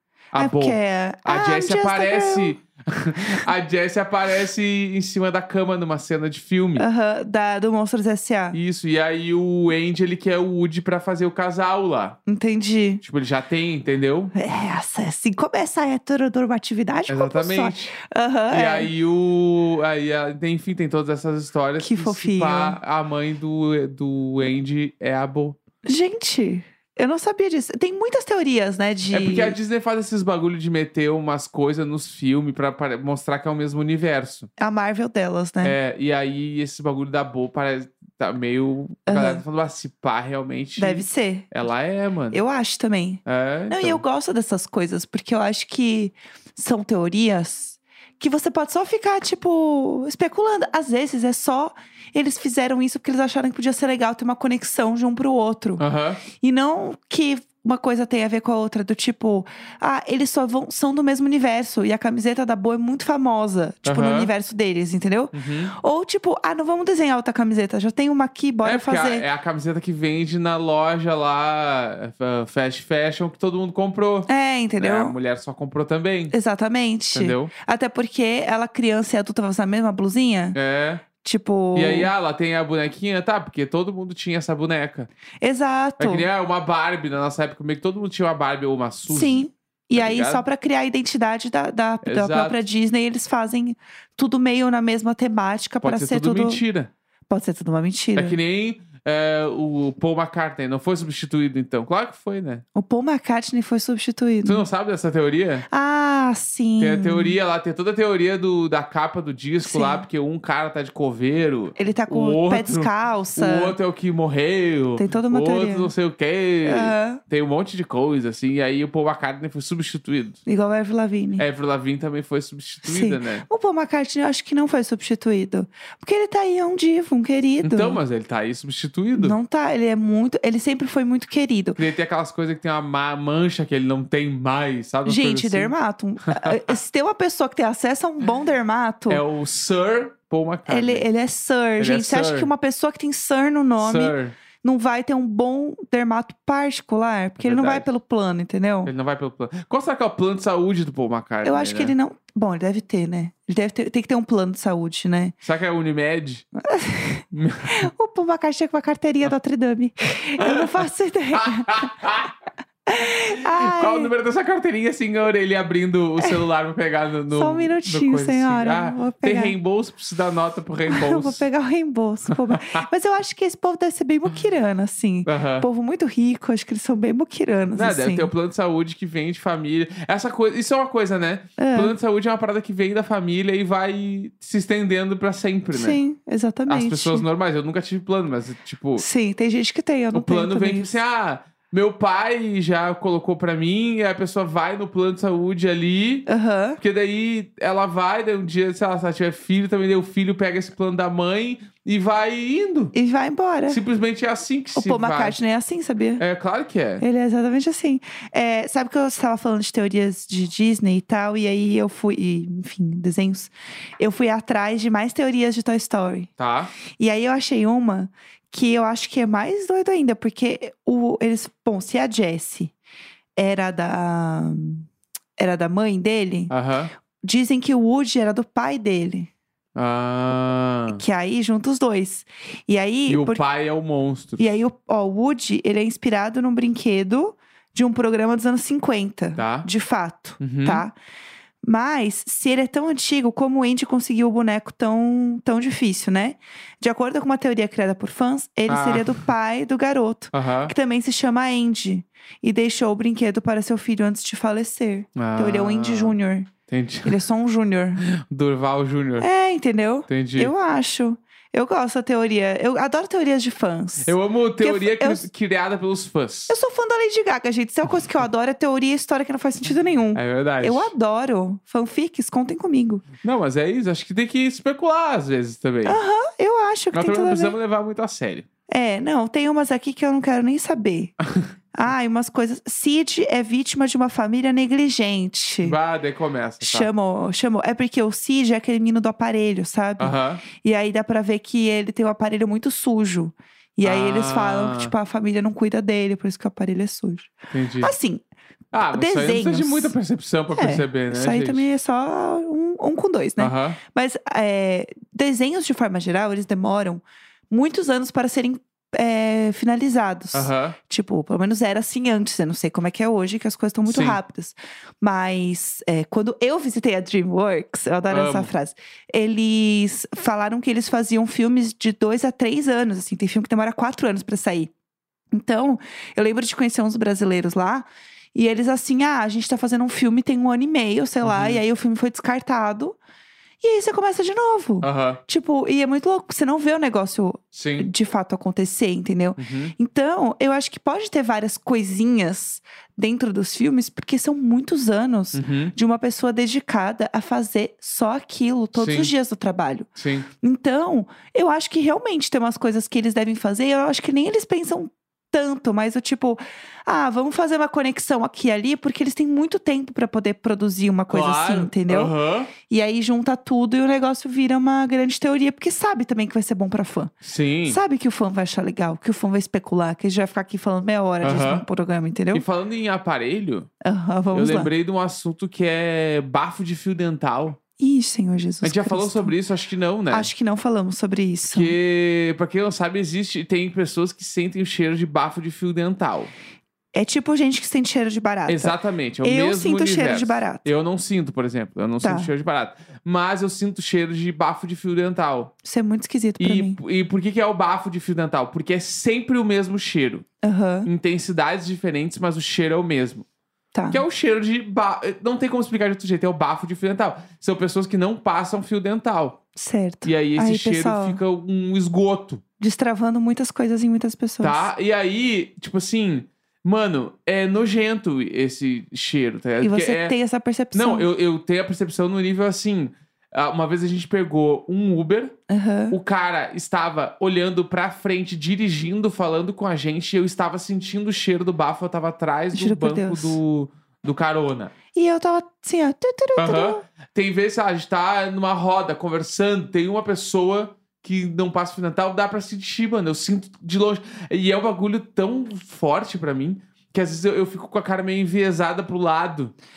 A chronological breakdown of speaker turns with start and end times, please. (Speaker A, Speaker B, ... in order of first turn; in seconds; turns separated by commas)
Speaker A: 0.3-6.8, Speaker B: 0.3-2.6, Speaker B: 6.8-8.6, Speaker A: 8.5-12.2, Speaker B: 12.3-13.0, Speaker A: 13.0-14.3, Speaker B: 14.3-18.9, Speaker A: 17.1-17.9, Speaker A: 18.5-25.6, Speaker B: 21.8-22.8, Speaker B: 25.8-29.6, Speaker A: 29.1-34.5, Speaker B: 34.6-35.8, Speaker A: 35.6-42.4, Speaker B: 39.0-39.4, Speaker B: 40.8-41.5, Speaker B: 42.3-55.8, Speaker A: 43.2-44.0, Speaker A: 55.8-56.2, Speaker B: 56.4-69.2, Speaker A: 63.8-64.3, Speaker A: 65.3-65.7, Speaker A: 68.6-74.3, Speaker B: 74.3-75.1, Speaker A: 74.8-76.3, Speaker B: 76.3-80.6, Speaker A: 77.1-77.5, Speaker A: 80.5-81.0, Speaker B: 81.2-82.1, Speaker A: 81.7-85.1, Speaker B: 85.4-86.3, Speaker A: 86.0-90.4, Speaker B: 89.1-96.6, Speaker A: 92.0-92.6, Speaker A: 95.8-96.9, Speaker B: 97.3-98.4, Speaker A: 98.2-102.6, Speaker B: 102.7-104.6, Speaker A: 104.4-105.7, Speaker B: 105.7-107.4, Speaker A: 106.8-120.4, Speaker B: 109.6-110.0, Speaker B: 111.8-113.8, Speaker B: 115.0-115.9, Speaker B: 116.6-117.2, Speaker B: 120.5-121.4, Speaker A: 121.4-123.5, Speaker B: 122.8-128.0, Speaker A: 127.6-129.4, Speaker B: 129.1-131.8, Speaker A: 131.8-135.7, Speaker B: 135.0-139.2, Speaker A: 136.3-136.8, Speaker A: 139.1-141.1, Speaker B: 140.7-148.9, Speaker A: 141.8-142.5, Speaker A: 143.8-144.3, Speaker A: 147.4-147.8, Speaker A: 148.8-151.9, Speaker B: 151.4-155.3, Speaker A: 155.4-156.4, Speaker B: 156.6-162.0, Speaker A: 157.3-157.8, Speaker A: 160.4-162.3, Speaker B: 162.9-164.1, Speaker A: 163.4-171.4, Speaker B: 167.3-169.5, Speaker B: 170.9-178.3, Speaker A: 172.3-172.8, Speaker A: 175.2-175.7, Speaker A: 177.7-186.0, Speaker B: 181.6-181.9, Speaker B: 185.7-187.2, Speaker A: 186.7-189.0, Speaker B: 189.0-191.0, Speaker A: 190.1-196.3, Speaker B: 196.3-196.8, Speaker A: 196.8-202.9, Speaker B: 202.9-203.8, Speaker A: 203.7-205.4, Speaker B: 204.7-206.2, Speaker A: 206.2-207.0, Speaker B: 207.0-216.3, Speaker A: 216.4-216.7, Speaker B: 217.0-222.7, Speaker B: 223.3-226.5, Speaker A: 226.5-226.9, Speaker B: 227.2-229.3, Speaker A: 229.8-231.0, Speaker B: 230.9-233.4, Speaker A: 233.1-234.5, Speaker B: 234.4-240.9, Speaker A: 239.3-239.7, Speaker A: 240.4-240.8, Speaker B: 241.6-256.5, Speaker A: 248.7-249.2, Speaker A: 250.3-250.7, Speaker A: 255.2-256.2, Speaker A: 256.7-257.2, Speaker B: 257.0-258.0, Speaker A: 258.0-259.3, Speaker B: 259.2-265.3, Speaker A: 260.1-260.5, Speaker A: 264.0-266.5, Speaker B: 266.5-273.1, Speaker A: 270.1-270.9, Speaker A: 273.2-276.0, Speaker B: 275.9-277.5, Speaker A: 276.9-278.4, Speaker B: 278.7-281.1, Speaker B: 281.7-285.8, Speaker A: 285.6-286.9, Speaker B: 286.6-298.2, Speaker A: 290.0-290.4, Speaker A: 293.8-294.9, Speaker A: 297.5-297.9, Speaker A: 298.7-301.6, Speaker B: 298.9-299.9, Speaker B: 300.6-324.7, Speaker A: 303.4-303.8, Speaker A: 310.3-310.8, Speaker A: 313.8-314.2, Speaker A: 318.1-318.5, Speaker B: 325.3-333.0, Speaker A: 331.2-331.6, Speaker B: 333.6-349.9, Speaker A: 334.8-335.2, Speaker A: 337.5-337.9, Speaker A: 339.4-339.7, Speaker A: 345.3-345.7, Speaker A: 348.7-349.1, Speaker A: 349.9-350.3, Speaker B: 350.4-362.1, Speaker A: 361.1-362.5, Speaker B: 362.6-367.1, Speaker A: 367.2-367.8, Speaker B: 367.7-372.4, Speaker A: 371.2-371.6, Speaker A: 372.3-373.7, Speaker B: 373.8-374.7, Speaker A: 374.3-377.6, Speaker B: 377.8-379.3, Speaker A: 378.6-380.3, Speaker B: 380.1-381.8, Speaker A: 381.5-386.3, Speaker B: 386.9-390.7, Speaker A: 388.5-395.5, Speaker B: 392.0-392.3, Speaker B: 395.6-396.8, Speaker A: 396.4-400.2, Speaker B: 400.4-400.9, Speaker A: 400.9-403.2, Speaker B: 403.7-404.0, Speaker A: 403.9-409.4, Speaker B: 409.6-411.2, Speaker A: 410.0-412.4, Speaker B: 412.6-414.7, Speaker A: 414.4-420.1, Speaker B: 419.6-421.1, Speaker A: 420.7-425.3, Speaker B: 425.5-425.9, Speaker A: 425.9-434.7, Speaker B: 432.5-433.4, Speaker B: 434.9-436.8, Speaker A: 436.4-449.5